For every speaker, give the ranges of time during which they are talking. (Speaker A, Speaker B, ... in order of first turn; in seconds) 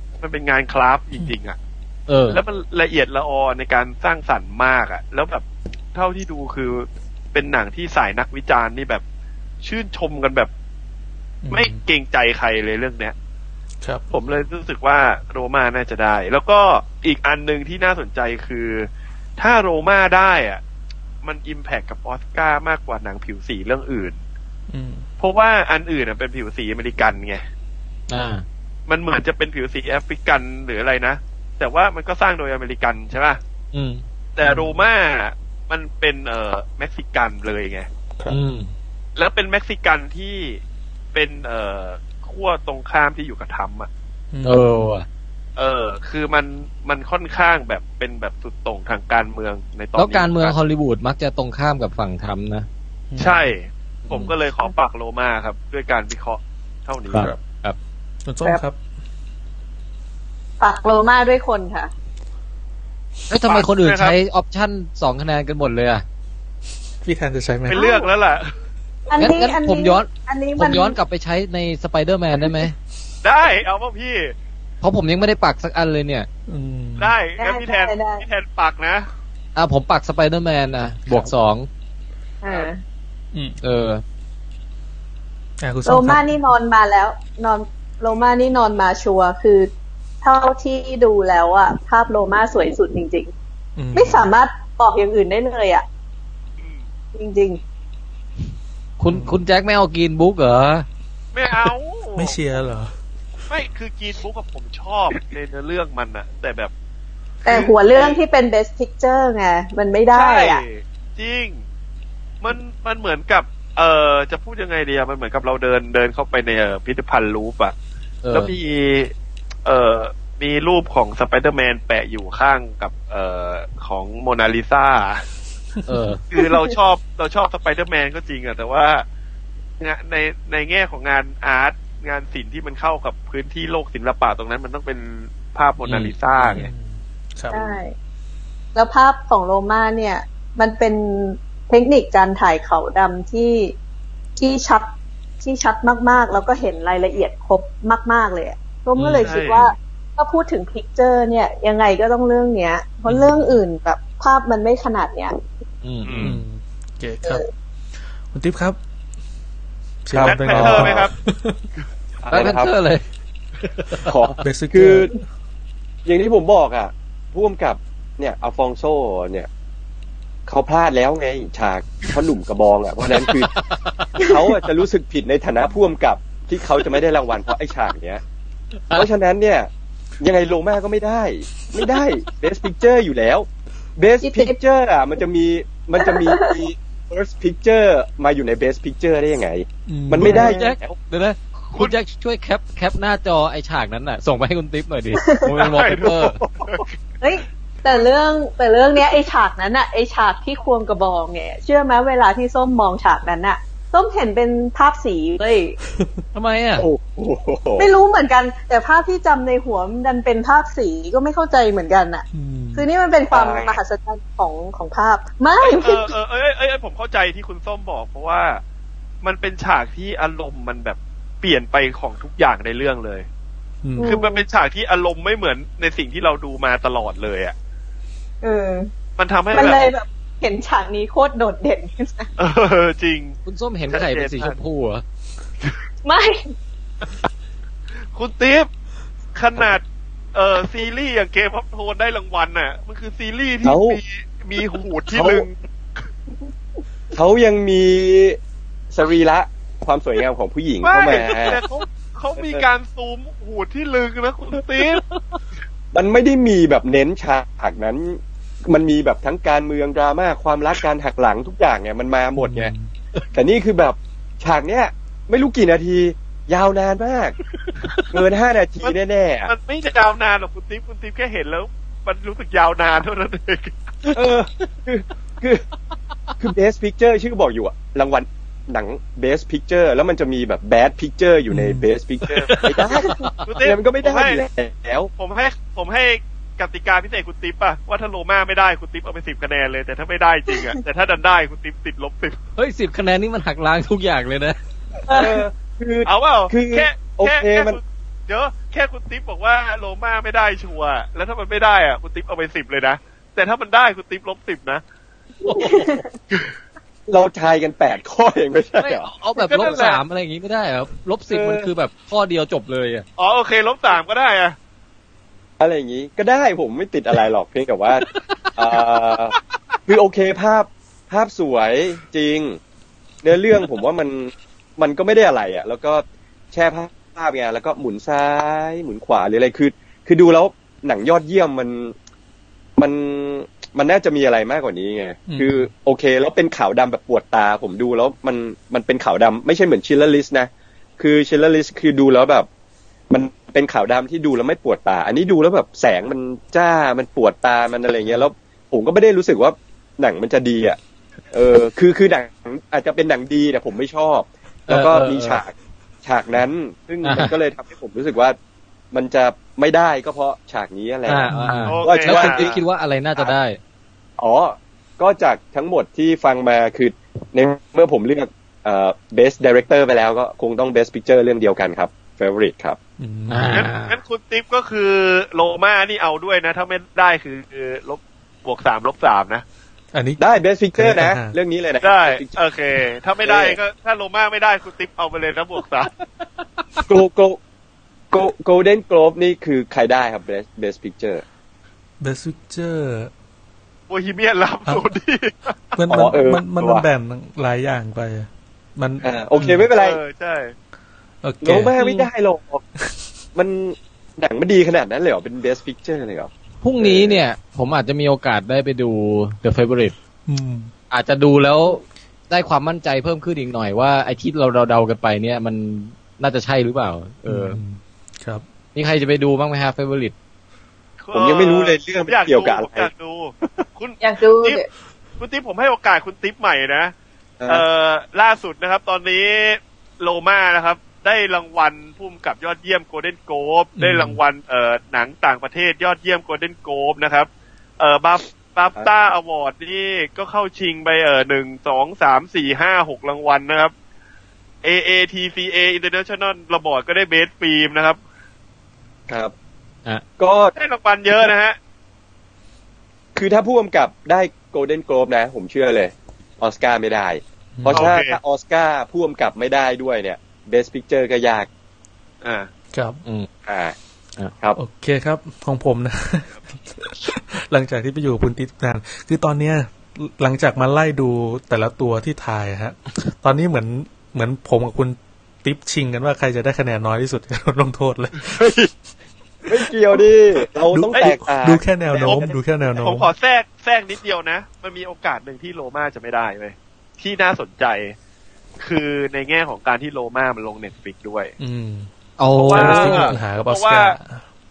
Speaker A: 0.2-1.6, 2.3-5.4, 6.0-9.0, 9.6-10.5, 11.5-13.1, 14.1-20.6, 21.2-24.2, 25.2-27.4, 28.9-33.4, 34.4-37.9, 39.2-40.6, 41.1-43.9, 45.6-50.5, 53.2-57.3, 63.4-64.2, 67.7-68.5, 73.2-74.3, 77.0-79.1, 101.3-102.4, 103.5-106.7, 107.5-108.2, 110.1-111.6, 112.4-117.8, 118.3-119.1, 119.7-125.2, 126.3-129.0, 129.8-136.7, 149.2-149.7, 156.1-156.4, 160.2-161.1, 195.6-196.9, 215.6-218.6, 219.2-223.3, 224.0-227.6, 229.2-229.9, 232.4-233.4, 233.9-234.6, 238.0-238.7, 239.3-239.8, 240.3-245.5, 250.8-255.0, 269.5-273.8, 283.4-284.4, 285.2-292.4, 296.1-304.8, 309.4-310.0, 313.2-314.6, 361.7-362.6, 373.5-379.4, 381.8-385.9, 393.9-395.8, 399.4-400.5, 421.0-424.6, 425.2-426.9, 427.5-437.3, 437.8-443.7, 444.6-448.0, 450.6-451.6, 457.7-458.2, 462.2-462.5, 482.8-487.9, 488.6-491.3, 492.4-494.0
Speaker B: 2.1-2.4, 28.1-28.4, 33.7-34.0, 38.3-38.7, 44.4-45.1, 50.0-52.7, 54.1-54.3, 57.1-57.8, 63.3-66.0, 69.2-72.7, 74.8-76.3, 79.6-81.7, 83.6-84.0, 99.0-100.9, 118.2-118.5, 125.9-126.2, 135.9-136.1, 149.0-149.3, 155.8-156.4, 162.3-163.1, 163.7-164.2, 173.1-174.2, 190.2-196.4, 206.3-206.9, 233.5-235.0, 254.8-255.4, 267.8-268.1, 282.2-283.5, 292.6-294.6, 308.8-313.1, 354.7-355.4, 357.0-357.4, 361.1-363.6, 373.3-374.0, 406.6-409.9, 410.9-417.6, 418.8-420.1, 492.2-493.2
Speaker C: 11.4-11.8, 24.7-25.1, 34.4-34.8, 44.3-44.9, 53.1-53.5, 57.2-57.4, 58.2-58.8, 67.0-67.8, 76.5-77.1, 83.3-83.6, 85.6-86.4, 93.8-94.3, 99.1-99.4, 102.2-103.0, 125.8-126.0, 136.4-137.8, 153.1-153.6, 156.2-157.4, 158.3-158.8, 160.1-161.7, 164.4-165.2, 189.9-190.4, 212.3-212.9, 223.8-224.2, 262.4-262.9, 281.5-281.9, 335.3-335.7, 361.3-361.8, 373.0-373.7, 379.9-380.2, 380.8-381.4, 392.0-393.1, 395.8-399.6, 401.2-401.8, 410.3-410.7, 417.3-418.4, 433.8-434.2, 457.6-458.0, 462.7-463.0, 464.6-478.6, 480.7-483.1, 491.4-491.9, 492.5-494.2
Speaker D: 60.6-61.9, 67.7-68.1, 69.1-71.0, 77.4-78.2, 82.4-82.8, 85.9-89.7, 90.2-93.3, 93.9-95.8, 97.2-97.6, 107.5-110.6, 137.5-137.9, 138.8-143.7, 144.4-144.9, 145.4-155.3, 184.2-184.6, 186.0-186.6, 190.2-190.5, 195.2-195.5, 197.2-205.8, 207.8-216.1, 224.0-224.4, 228.4-228.9, 229.5-232.3, 236.0-236.5, 295.1-295.4, 305.5-306.1, 424.0-424.6
Speaker E: 160.1-161.0, 162.2-162.7, 164.1-165.2, 166.1-169.5, 170.5-173.5, 174.2-178.2, 178.9-179.7, 180.2-190.9, 206.8-207.9, 213.3-213.8, 243.6-244.0, 245.1-245.5, 247.1-248.4, 248.9-251.6, 252.4-252.7, 255.9-262.7, 263.3-267.4, 268.1-269.5, 274.1-275.6, 276.4-285.1, 295.1-297.8, 305.6-305.9, 307.1-309.1, 311.3-311.7, 315.6-318.1, 318.6-319.4, 319.9-322.6, 323.2-331.9, 332.8-342.5, 343.1-350.8, 351.3-355.5, 356.1-358.4, 358.9-361.3, 361.8-362.6, 364.2-372.8, 380.2-382.4, 383.2-383.6, 386.9-387.4, 388.1-391.2, 395.9-396.9, 399.0-400.0, 401.4-402.6, 403.4-407.2, 421.1-422.9, 427.4-427.6, 449.1-449.3, 450.2-450.5, 453.1-461.5, 463.5-463.8, 479.5-482.4